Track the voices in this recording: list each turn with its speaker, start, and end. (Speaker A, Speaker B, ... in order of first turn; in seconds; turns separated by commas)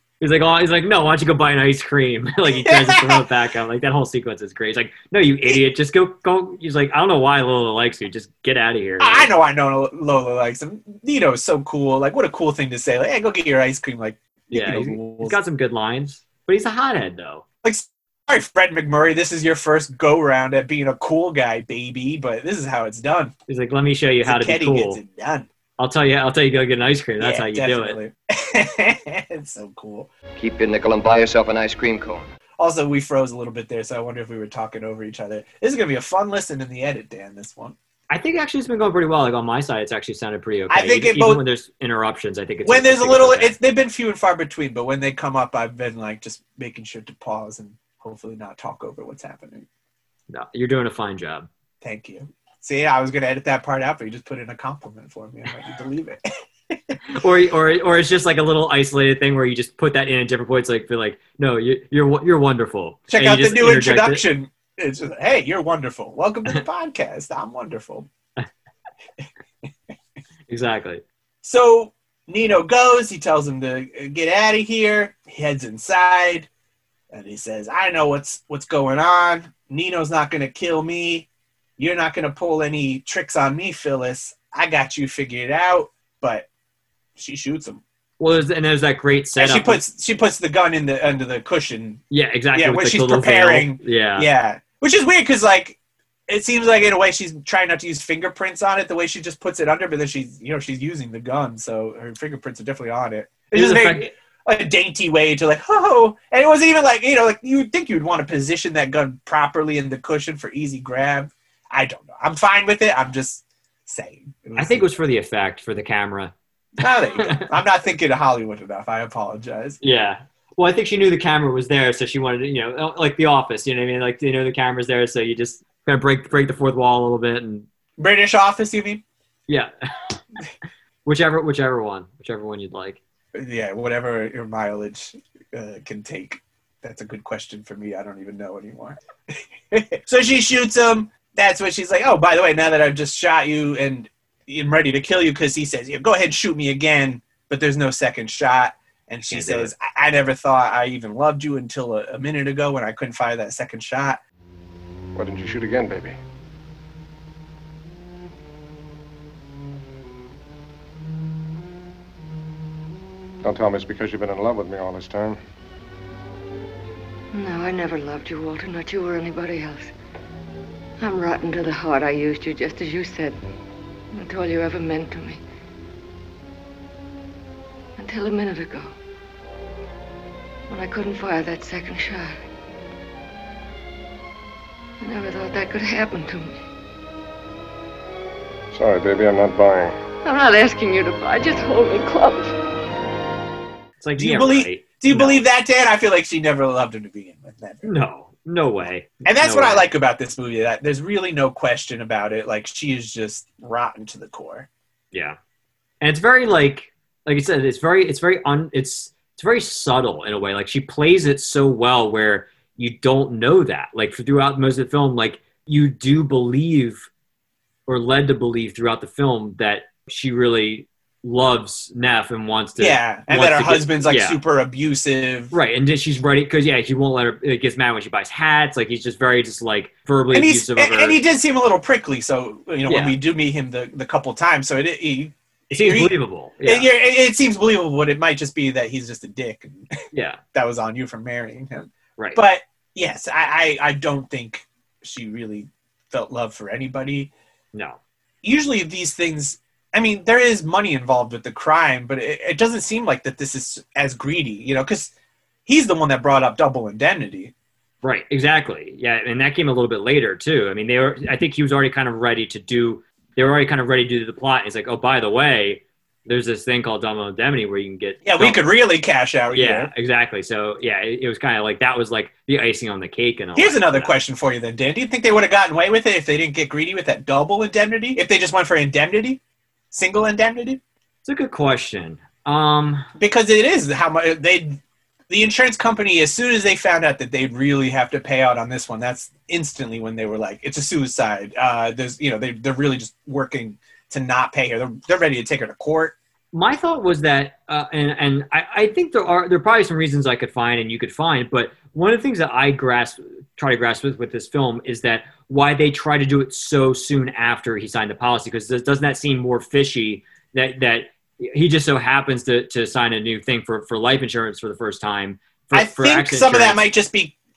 Speaker A: 0.2-9.3, Speaker B: 2.5-3.2, Speaker B: 9.0-15.4, Speaker A: 14.5-17.4, Speaker B: 17.6-23.3, Speaker A: 23.5-25.0, Speaker B: 24.2-25.5, Speaker A: 25.8-28.0, Speaker B: 27.2-30.1, Speaker C: 30.4-32.3, Speaker B: 32.6-37.8, Speaker A: 38.1-43.6, Speaker B: 40.7-41.4, Speaker B: 42.6-49.7, Speaker A: 50.3-51.5, Speaker B: 51.8-57.0, Speaker A: 57.1-64.2, Speaker B: 63.1-68.1, Speaker A: 70.5-71.0, Speaker B: 71.4-76.5, Speaker B: 77.1-86.5, Speaker B: 87.2-87.8, Speaker A: 88.2-89.8, Speaker B: 89.4-92.0, Speaker A: 92.1-94.3, Speaker B: 92.5-114.9, Speaker A: 103.5-104.1, Speaker A: 114.6-116.3, Speaker B: 116.8-119.8, Speaker A: 117.2-117.5, Speaker A: 119.8-127.7, Speaker B: 128.0-129.0, Speaker A: 129.5-130.2, Speaker A: 131.1-133.0, Speaker B: 133.3-154.2, Speaker A: 149.3-149.7, Speaker D: 155.2-156.2, Speaker D: 163.4-165.4, Speaker E: 167.3-169.9, Speaker E: 171.0-173.4, Speaker E: 174.1-175.4, Speaker E: 178.0-178.9, Speaker E: 180.7-182.3, Speaker E: 185.0-186.6, Speaker D: 188.7-189.9, Speaker E: 190.2-192.5, Speaker A: 194.0-195.4, Speaker B: 194.2-197.9, Speaker A: 197.8-199.9, Speaker B: 199.2-204.7, Speaker A: 205.1-205.4, Speaker A: 206.0-217.1, Speaker A: 217.9-224.4, Speaker B: 222.8-225.6, Speaker A: 225.5-231.2, Speaker B: 230.3-239.9, Speaker A: 232.9-233.2, Speaker A: 235.7-236.9, Speaker A: 240.1-240.4, Speaker B: 240.5-247.3, Speaker A: 247.7-248.0, Speaker B: 248.4-255.1, Speaker B: 255.7-257.5, Speaker A: 258.0-268.7, Speaker B: 268.2-269.9, Speaker A: 269.5-274.1, Speaker B: 273.6-279.4, Speaker B: 279.9-280.8, Speaker A: 281.2-283.1, Speaker B: 283.2-296.1, Speaker A: 296.5-316.9, Speaker B: 315.7-317.4